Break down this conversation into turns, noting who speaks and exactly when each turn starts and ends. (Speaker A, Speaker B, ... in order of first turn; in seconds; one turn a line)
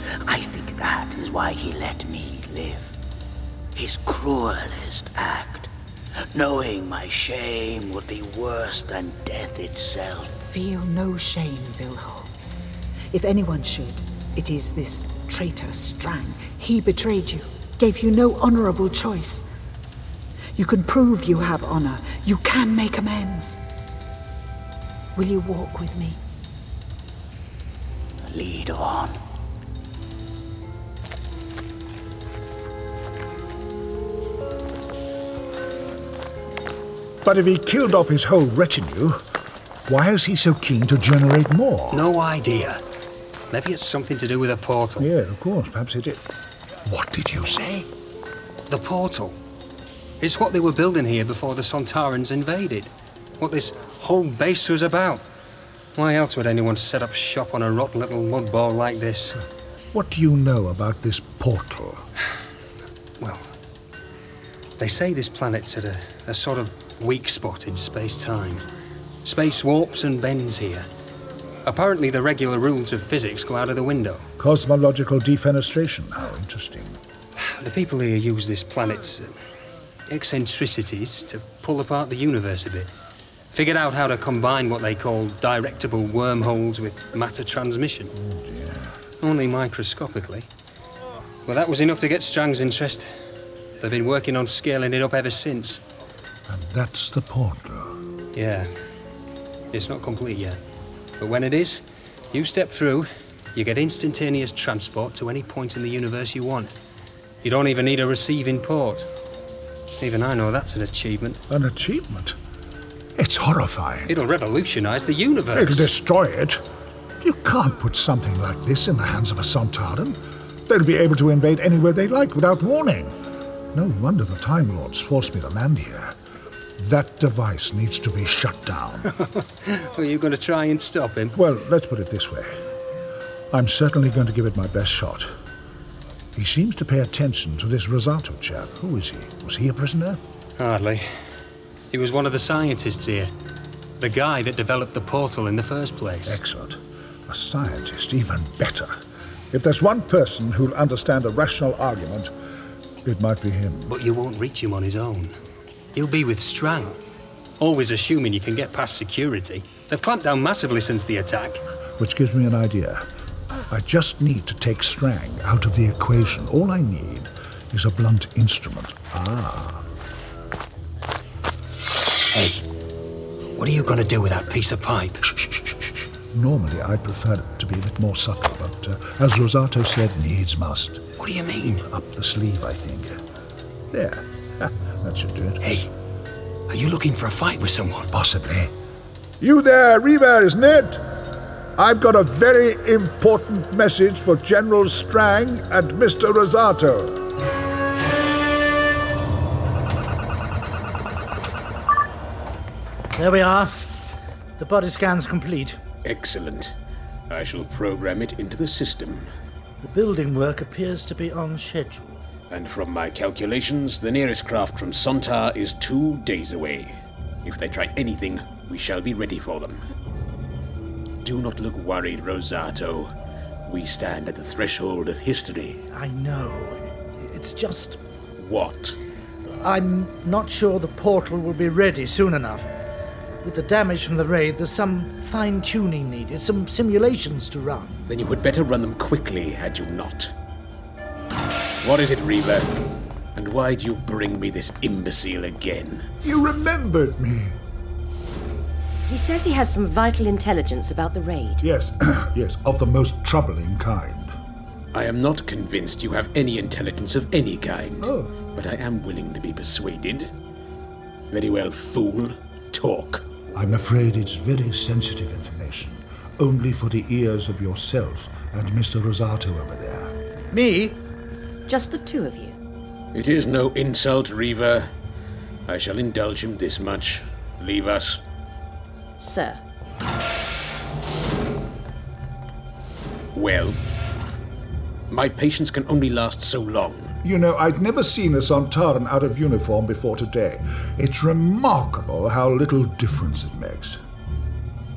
Speaker A: 0.2-2.9
Speaker A: 3.7-5.7
Speaker A: 6.3-10.4
Speaker B: 10.5-12.3
Speaker B: 13.1-19.5
Speaker B: 20.6-23.6
Speaker B: 25.1-26.2
Speaker A: 28.3-29.2
Speaker C: 37.2-39.2
Speaker C: 39.9-42.1
Speaker D: 41.9-42.8
Speaker D: 43.5-45.1
Speaker C: 45.0-46.2
Speaker C: 46.9-47.9
Speaker D: 48.7-49.4
Speaker D: 50.2-55.2
Speaker D: 55.9-59.4
Speaker C: 59.9-62.0
Speaker D: 63.2-63.5
Speaker D: 64.8-68.6
Speaker D: 69.2-70.9
Speaker D: 71.6-74.2
Speaker C: 74.4-77.0
Speaker D: 77.4-79.3
Speaker D: 80.1-82.9
Speaker D: 83.5-88.1
Speaker C: 88.1-89.0
Speaker D: 89.2-90.5
Speaker D: 91.5-93.1
Speaker D: 93.8-95.8
Speaker C: 96.5-98.0
Speaker D: 98.3-98.7
Speaker D: 99.7-100.6
Speaker D: 101.2-106.8
Speaker D: 107.4-109.1
Speaker D: 110.0-111.4
Speaker C: 111.5-112.3
Speaker C: 113.2-114.1
Speaker D: 114.1-115.9
Speaker C: 115.5-116.6
Speaker C: 117.2-123.1
Speaker C: 123.7-126.2
Speaker C: 126.8-129.1
Speaker D: 129.2-131.4
Speaker C: 131.3-132.5
Speaker C: 133.5-135.3
Speaker C: 136.3-140.2
Speaker D: 140.6-141.1
Speaker D: 141.9-143.3
Speaker D: 144.0-146.4
Speaker C: 146.2-148.9
Speaker C: 149.5-152.3
Speaker C: 153.0-153.9
Speaker D: 153.9-155.3
Speaker D: 155.9-157.0
Speaker D: 157.6-161.6
Speaker C: 162.0-163.1
Speaker C: 163.7-169.9
Speaker D: 172.3-172.6
Speaker D: 173.6-175.8
Speaker C: 176.3-181.0
Speaker D: 181.2-181.8
Speaker C: 181.9-183.1
Speaker C: 183.9-185.7
Speaker D: 186.7-188.1
Speaker C: 188.1-188.7
Speaker C: 189.4-191.2
Speaker C: 191.8-197.3
Speaker E: 203.1-203.8
Speaker E: 204.6-205.8
Speaker F: 206.0-206.7
Speaker F: 207.3-209.3
Speaker E: 209.8-212.2
Speaker F: 212.5-219.8
Speaker F: 221.2-223.1
Speaker F: 223.7-225.8
Speaker E: 225.9-228.0
Speaker F: 228.4-229.0
Speaker E: 229.6-232.7
Speaker E: 233.4-238.0
Speaker F: 238.1-240.3
Speaker F: 241.8-242.7
Speaker F: 243.3-246.1
Speaker C: 246.2-247.6
Speaker G: 249.1-251.6
Speaker C: 251.6-254.3
Speaker F: 254.9-260.3
Speaker C: 258.0-258.3
Speaker F: 261.3-263.2
Speaker C: 263.5-270.1
Speaker E: 270.5-271.0
Speaker G: 271.7-272.6
Speaker F: 273.1-274.9
Speaker F: 275.7-278.2
Speaker G: 279.2-279.6
Speaker F: 283.3-283.8
Speaker F: 285.1-287.1
Speaker C: 287.2-294.0